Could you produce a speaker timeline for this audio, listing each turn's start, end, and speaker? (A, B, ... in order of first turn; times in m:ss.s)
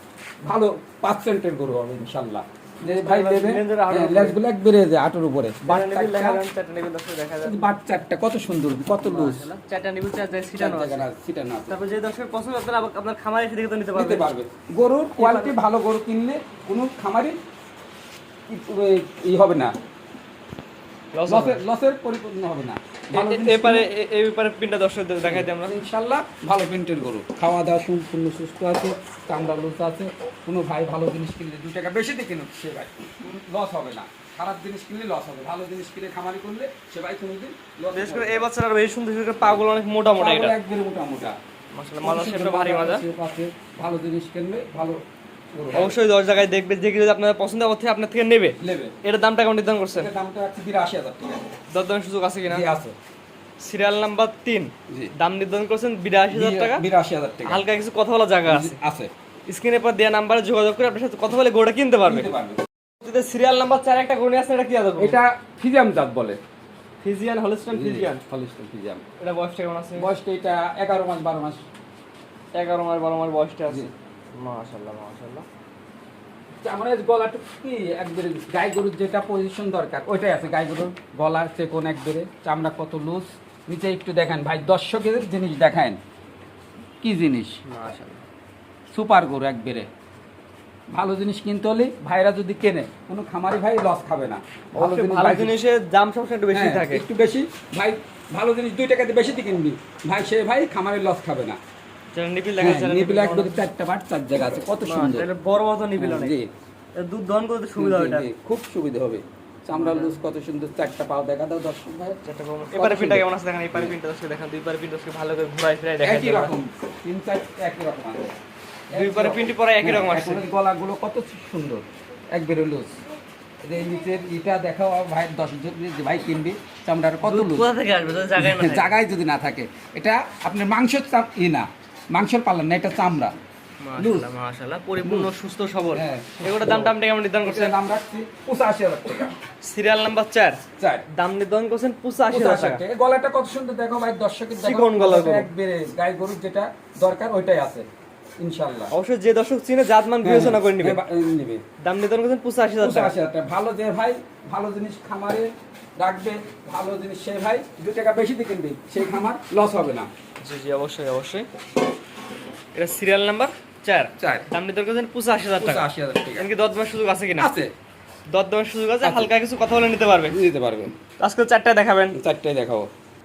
0:00.4-0:06.4 A
0:03.0-0:04.4 B
0:05.6-0:07.7 B
0:07.4-0:09.5 A
0:09.0-0:11.1 B
0:10.6-0:11.8 A
0:11.7-0:14.3 B
0:13.9-0:17.4 A
0:15.1-0:15.6 B
0:18.5-0:19.7 A
0:21.1-0:21.6 B
0:21.3-0:23.9 A
0:23.1-0:25.8 B
0:25.2-0:38.4 A
0:37.9-0:40.6 B
0:40.1-0:41.4 A
0:41.7-0:43.0 B
0:42.0-0:45.0 A
0:45.5-0:45.9 A
0:45.7-0:50.1 B
0:48.6-0:48.9 A
0:49.9-0:51.4 A
0:51.7-0:52.6 B
0:52.5-0:52.9 A
0:53.6-0:56.8 B
0:56.3-0:57.6 A
0:57.4-0:58.8 B
0:58.4-0:59.1 A
0:59.5-1:02.3 B
1:02.0-1:02.6 A
1:03.0-1:05.2 B
1:05.0-1:06.4 A
1:07.0-1:08.2 B
1:07.7-1:09.0 A
1:09.2-1:10.1 B
1:10.0-1:11.6 A
1:12.5-1:15.4 B
1:16.6-1:26.0 A
1:27.0-1:27.6 A
1:27.6-1:28.2 B
1:28.9-1:29.9 A
1:30.9-1:35.5 A
1:34.8-1:37.0 B
1:36.5-1:41.6 A
1:42.1-1:43.6 B
1:42.6-1:45.3 A
1:44.8-1:46.4 B
1:46.0-1:46.5 A
1:47.0-1:48.3 B
1:47.8-1:52.2 A
1:49.7-1:50.2 B
1:52.2-1:56.5 B
1:52.7-1:53.9 A
1:56.0-1:58.3 A
1:58.9-2:03.0 A
1:58.9-2:00.5 B
2:03.6-2:07.7 A
2:07.2-2:08.9 B
2:08.4-2:13.3 A
2:13.8-2:17.7 B
2:14.0-2:14.3 A
2:15.0-2:15.3 A
2:15.9-2:19.3 A
2:19.6-2:20.6 B
2:20.8-2:21.0 A
2:21.1-2:22.8 B
2:22.3-2:27.8 A
2:24.6-2:25.5 B
2:28.4-2:28.9 A
2:28.9-2:31.0 B
2:30.2-2:31.6 A
2:31.8-2:33.1 B
2:32.8-2:40.1 A
2:40.4-2:41.5 B
2:42.7-2:47.5 B
2:44.2-2:44.5 A
2:45.6-2:46.5 A
2:47.4-2:47.7 A
2:48.3-2:50.4 B
2:49.0-2:49.3 A
2:50.3-2:50.9 A
2:51.2-2:52.2 B
2:52.1-2:52.9 A